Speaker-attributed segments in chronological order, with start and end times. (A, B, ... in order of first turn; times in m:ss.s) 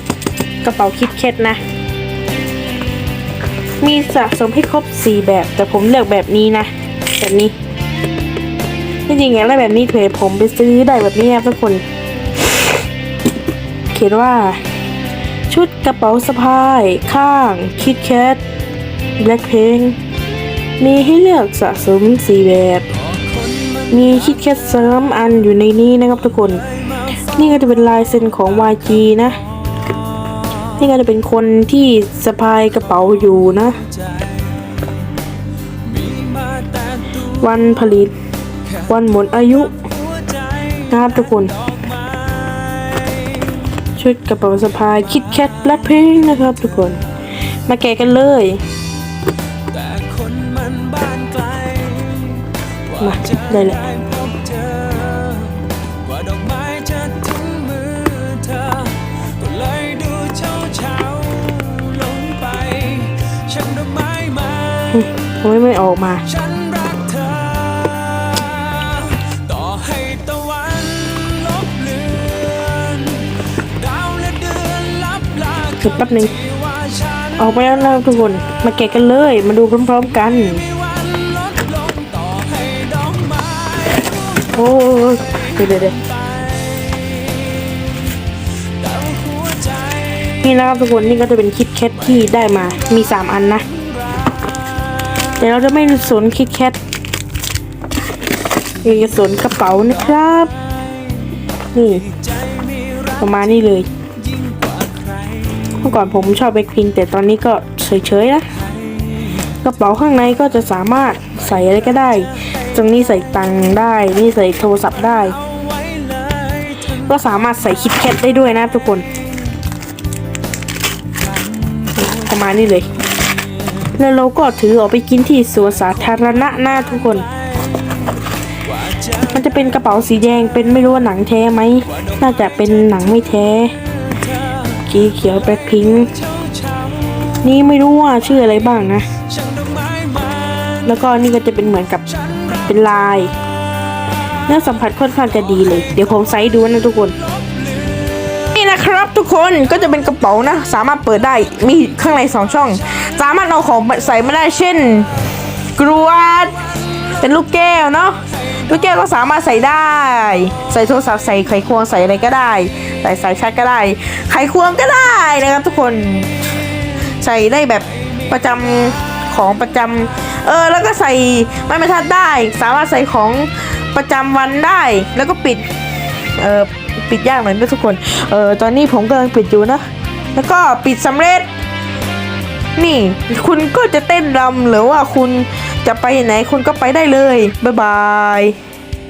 0:00.6-0:01.6 A
0:03.8-0:07.6 A
0:09.1-0:11.8 A
0:13.9-0:14.6 A
0:15.5-0:18.4 A
0:19.2-0:20.0 A
0:20.8-0:22.9 A
0:23.8-0:26.6 A
0:27.3-0:29.4 A
0:30.8-0:33.8 A
0:36.0-0:37.0 B
0:37.2-0:38.1 A
0:38.9-0:39.8 A
0:40.9-0:41.6 A
0:42.3-0:43.0 B
0:44.0-0:47.0 A
0:47.7-0:48.6 A
0:49.7-0:52.4 B
0:53.0-0:53.8 A
0:54.0-1:04.7 B
1:04.9-1:06.2 A
1:06.5-1:13.3 B
1:13.9-1:15.6 B
1:15.7-1:16.4 A
1:17.4-1:20.7 A
1:20.9-1:23.8 B
1:24.5-1:26.0 A
1:29.0-1:29.8 B
1:30.3-1:33.7 A
1:35.4-1:36.8 A
1:38.8-1:40.5 A
1:41.7-1:42.1 A
1:43.2-1:43.9 A
1:44.4-1:45.0 B
1:45.8-1:48.5 A
1:49.6-1:55.4 A
1:55.8-1:56.4 B
1:56.9-1:59.1 A
2:02.0-2:02.9 A
2:04.0-2:07.3 A
2:09.2-2:13.8 A
2:14.8-2:16.1 A
2:17.4-2:19.1 A
2:19.5-2:20.4 B
2:20.8-2:23.3 A
2:24.4-2:27.2 A
2:28.4-2:35.1 A
2:35.8-2:46.3 A
2:47.2-2:55.7 A
2:56.4-3:01.5 A
3:02.8-3:08.6 A